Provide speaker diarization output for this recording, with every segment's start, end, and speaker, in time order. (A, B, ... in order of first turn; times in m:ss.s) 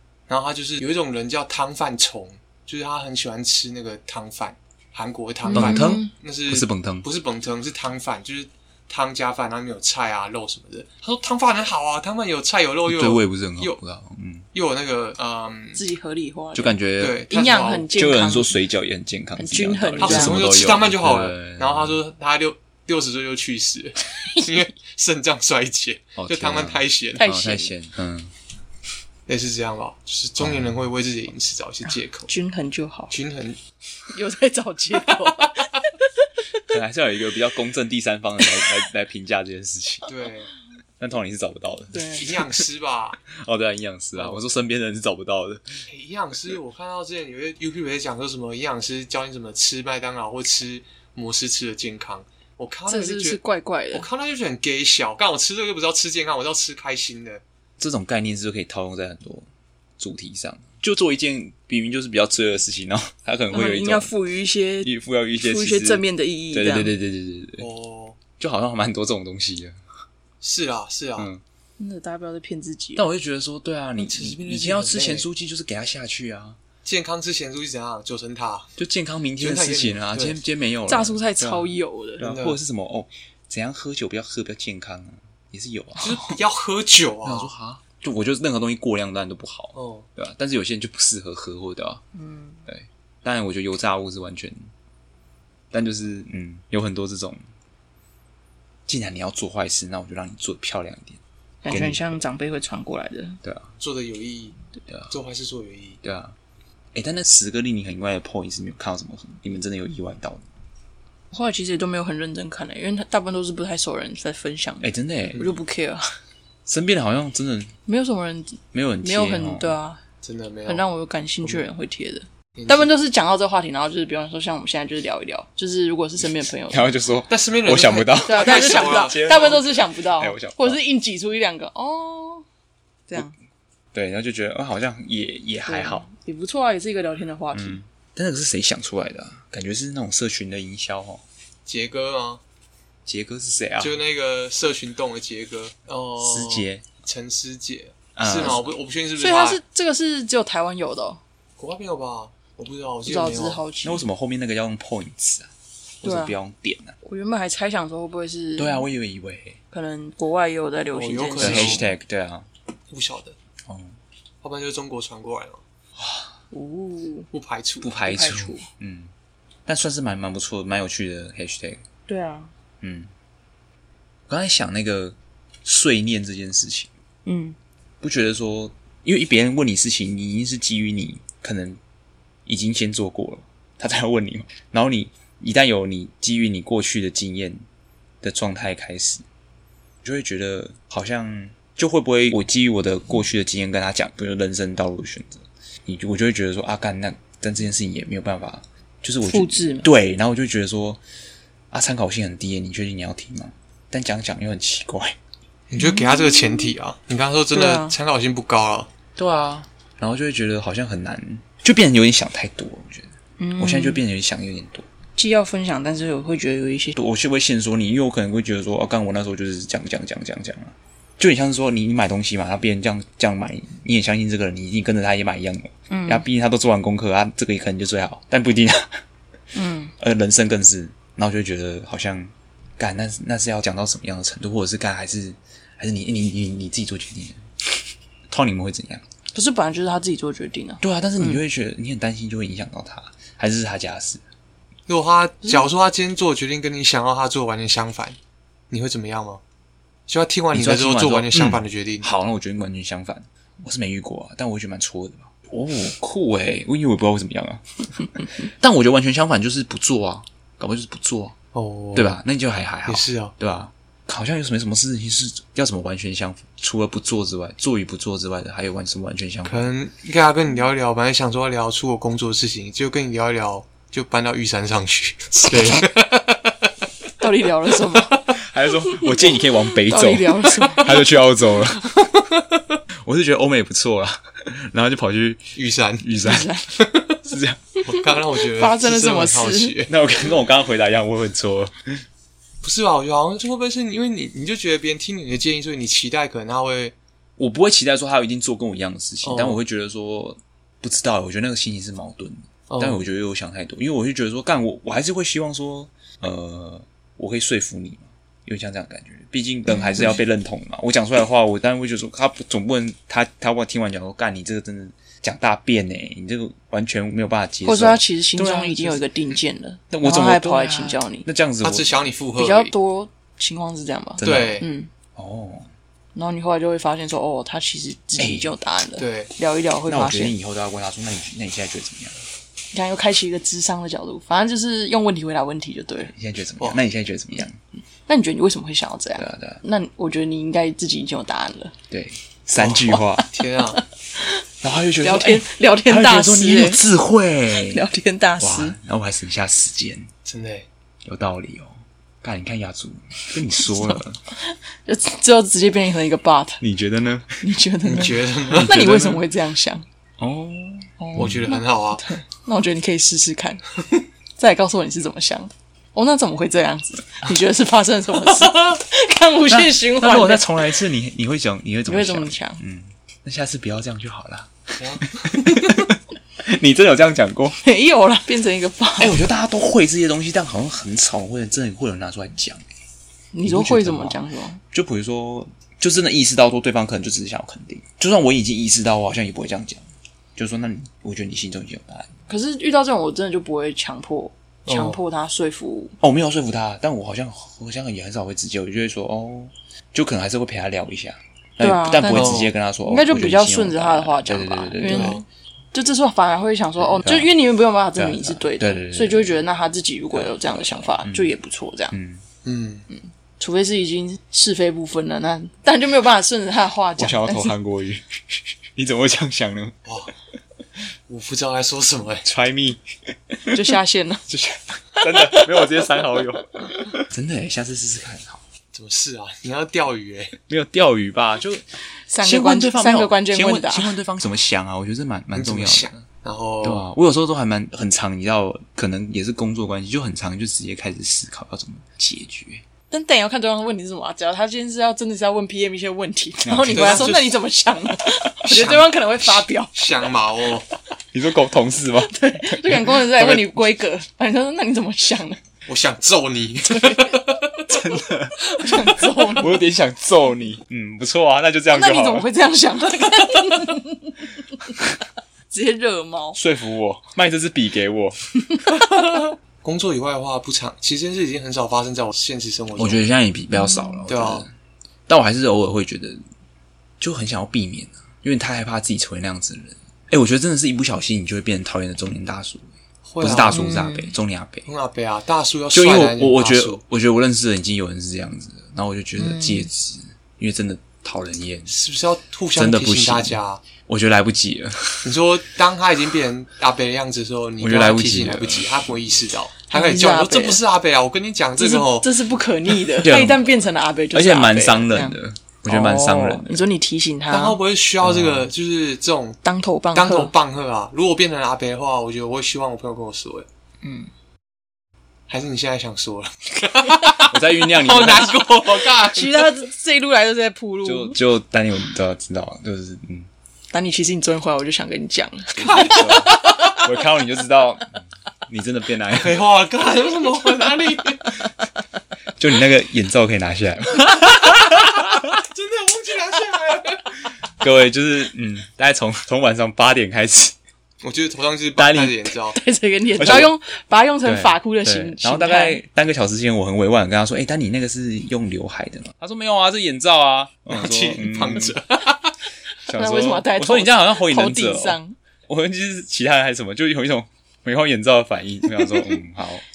0:00.3-0:13.8 A
0:05.4-0:06.1 B
0:05.5-0:07.0 C
0:12.9-0:14.4 C
0:14.5-0:15.8 A
0:15.7-0:16.8 B
0:16.5-0:17.2 C
0:17.0-0:17.9 A
0:17.3-0:18.6 B
0:17.9-0:22.0 C
0:19.4-0:20.4 B
0:20.0-0:27.2 A
0:26.2-0:28.3 C
0:27.2-0:27.7 B
0:29.3-0:32.3 A
0:30.4-0:30.8 C
0:32.3-0:33.2 B
0:33.1-0:33.6 A
0:34.1-0:36.0 B
0:35.0-0:35.7 A
0:36.7-0:40.1 C
0:40.0-0:40.5 A
0:41.0-0:42.6 C
0:41.9-0:42.4 B
0:42.1-0:43.2 A
0:43.3-0:45.8 C
0:44.1-0:44.4 A
0:45.9-0:53.4 A
0:52.9-0:54.1 B
0:53.9-0:57.4 A
0:57.8-0:59.5 C
1:00.0-1:04.1 C
1:03.5-1:06.9 B
1:04.8-1:07.7 C
1:07.6-1:08.2 A
1:08.4-1:09.8 C
1:10.4-1:11.3 A
1:11.2-1:11.4 C
1:11.8-1:13.0 B
1:13.0-1:16.6 C
1:14.0-1:15.3 A
1:16.8-1:18.7 A
1:18.8-1:26.3 C
1:19.4-1:20.4 A
1:20.9-1:22.2 B
1:22.2-1:22.6 A
1:26.0-1:27.5 A
1:27.2-1:32.0 C
1:29.7-1:30.1 A
1:32.1-1:32.6 B
1:32.6-1:34.6 C
1:35.7-1:37.4 C
1:38.9-1:42.0 C
1:41.6-1:43.4 B
1:43.4-1:43.7 C
1:43.8-1:44.6 A
1:45.1-1:46.0 A
1:46.0-1:46.4 C
1:46.9-1:50.4 C
1:51.3-1:56.0 B
1:54.8-1:55.4 C
1:55.3-1:55.6 A
1:56.6-1:57.7 C
1:57.9-2:00.0 B
1:58.7-1:59.7 C
2:00.2-2:00.8 A
2:00.6-2:06.9 B
2:02.6-2:02.9 A
2:06.7-2:10.8 C
2:07.3-2:09.6 A
2:08.2-2:12.4 B
2:13.1-2:13.3 B
2:13.9-2:16.0 C
2:15.7-2:17.8 B
2:17.5-2:21.2 C
2:21.6-2:22.4 A
2:23.0-2:24.0 C
2:23.8-2:29.6 A
2:26.2-2:26.8 C
2:28.2-2:28.6 C
2:29.2-2:31.2 B
2:31.6-2:33.6 A
2:33.0-2:34.0 B
2:33.8-2:35.5 C
2:36.0-2:36.4 B
2:36.0-2:36.9 C
2:37.0-2:38.9 B
2:38.6-2:39.6 C
2:39.7-2:41.8 B
2:40.9-2:41.9 A
2:41.4-2:42.5 C
2:42.9-2:43.4 A
2:43.6-2:44.0 C
2:44.4-2:45.6 A
2:46.0-2:46.3 C
2:46.5-2:47.3 B
2:47.3-2:47.9 A
2:47.8-2:49.1 C
2:48.0-2:48.7 B
2:49.6-2:51.8 C
2:52.1-2:52.5 B
2:52.8-2:53.1 C
2:54.3-2:56.9 C
2:57.2-2:57.6 B
2:58.0-3:01.8 C
3:02.4-3:07.6 C
3:08.2-3:09.2 C
3:10.0-3:21.0 C
3:19.2-3:19.9 B
3:21.7-3:25.2 C
3:25.7-3:28.9 A
3:25.8-3:26.7 B
3:27.5-3:28.0 B
3:29.2-3:34.8 C
3:33.4-3:34.0 B
3:35.2-3:37.0 B
3:37.0-3:49.0 C
3:45.9-3:46.2 B
3:49.5-3:49.9 B
3:50.0-3:57.4 C
3:58.3-3:59.0 C
3:59.3-4:01.4 B
4:00.8-4:04.2 C
4:04.9-4:08.2 A
4:08.7-4:09.4 A
4:10.1-4:12.1 A
4:10.5-4:21.3 C
4:21.5-4:22.2 A
4:21.9-4:29.7 C
4:22.8-4:23.3 A
4:29.4-4:36.7 A
4:37.2-4:38.3 B
4:38.3-4:41.9 C
4:38.8-4:41.0 B
4:43.0-4:46.5 C
4:45.5-4:46.1 A
4:46.2-4:46.7 B
4:46.8-4:47.1 A
4:47.3-4:47.7 C
4:47.8-4:49.9 A
4:47.9-4:49.8 B
4:49.9-4:52.0 C
4:52.6-4:56.9 A
4:57.4-5:19.0 C
4:59.2-4:59.6 A
5:02.7-5:03.0 A
5:09.7-5:10.2 B
5:17.6-5:21.3 B
5:19.9-5:21.9 C
5:21.6-5:22.7 A
5:22.4-5:24.9 B
5:24.2-5:24.6 C
5:24.2-5:24.7 A
5:25.2-5:25.7 C
5:26.1-5:30.3 B
5:28.2-5:28.5 C
5:29.0-5:29.3 A
5:29.9-5:32.2 C
5:32.7-5:36.1 B
5:36.1-5:37.6 C
5:38.1-5:41.7 B
5:39.2-5:39.6 C
5:41.9-5:43.2 C
5:42.6-5:43.8 A
5:43.7-5:44.4 B
5:44.6-5:47.8 C
5:45.0-5:46.8 B
5:47.5-5:48.8 B
5:48.4-5:50.1 C
5:50.2-5:50.7 A
5:51.0-5:54.2 C
5:53.6-5:56.6 B
5:56.6-5:57.4 C
5:57.4-5:59.8 B
5:57.8-5:58.8 A
5:58.5-5:59.2 C
6:00.2-6:01.5 C
6:01.0-6:03.8 B
6:01.1-6:02.0 A
6:04.4-6:10.6 B
6:09.5-6:17.6 C
6:11.9-6:12.6 B
6:14.8-6:15.6 A
6:17.6-6:19.2 B
6:19.0-6:22.6 C
6:23.3-6:24.6 B
6:23.4-6:24.2 C
6:24.7-6:29.8 C
6:30.4-6:32.1 C
6:32.3-6:36.0 B
6:34.7-6:35.0 A
6:36.0-6:45.2 C
6:41.6-6:51.9 B
6:42.1-6:42.5 A
6:44.8-6:45.2 A
6:46.8-6:47.3 C
6:47.9-6:49.4 C
6:50.1-6:51.3 C
6:51.9-6:52.2 C
6:52.4-6:52.8 A
6:52.9-6:57.5 B
6:57.0-6:59.8 C
6:59.8-7:00.1 A
7:01.1-7:02.3 A
7:02.2-7:02.8 C
7:03.5-7:04.2 B
7:04.3-7:08.4 C
7:05.3-7:05.7 B
7:08.7-7:10.3 A
7:10.5-7:11.6 C
7:12.1-7:13.9 B
7:12.2-7:15.9 C
7:15.3-7:16.8 A
7:16.6-7:22.6 C
7:22.9-7:30.0 B
7:26.4-7:27.2 C
7:26.7-7:27.4 A
7:28.4-7:30.6 A
7:31.1-7:33.5 C
7:32.0-7:35.4 B
7:35.6-7:37.6 A
7:37.6-7:42.2 C
7:38.5-7:39.6 B
7:41.7-7:44.8 B
7:45.5-7:46.4 B
7:46.4-7:48.2 C
7:48.9-7:53.0 A
7:52.8-7:54.5 C
7:53.5-7:54.0 B
7:54.1-7:54.4 A
7:55.1-7:56.2 C
7:57.0-8:04.7 C
8:03.0-8:03.8 A
8:03.5-8:04.1 B
8:04.6-8:06.8 A
8:05.7-8:11.8 C
8:09.2-8:09.7 B
8:11.7-8:13.6 A
8:12.5-8:15.1 C
8:15.0-8:22.2 A
8:17.6-8:18.9 C
8:19.7-8:20.6 B
8:21.6-8:25.2 B
8:23.0-8:23.4 C
8:24.1-8:26.6 C
8:25.7-8:27.6 B
8:27.3-8:29.4 A
8:28.0-8:28.5 C
8:29.4-8:30.3 B
8:29.9-8:33.5 A
8:33.8-8:34.1 B
8:35.3-8:39.6 A
8:37.2-8:38.4 C
8:38.8-8:41.2 B
8:40.8-8:43.3 C
8:43.7-8:46.4 B
8:45.5-8:49.5 C
8:45.7-8:46.5 A
8:49.1-8:51.3 A
8:52.4-8:55.2 C
8:55.3-8:57.1 A
8:57.6-9:00.5 C
9:01.0-9:02.6 A
9:01.8-9:02.2 C
9:02.5-9:05.8 B
9:03.2-9:03.5 C
9:04.2-9:11.8 C
9:10.7-9:12.3 A
9:12.8-9:19.6 C
9:12.9-9:15.1 B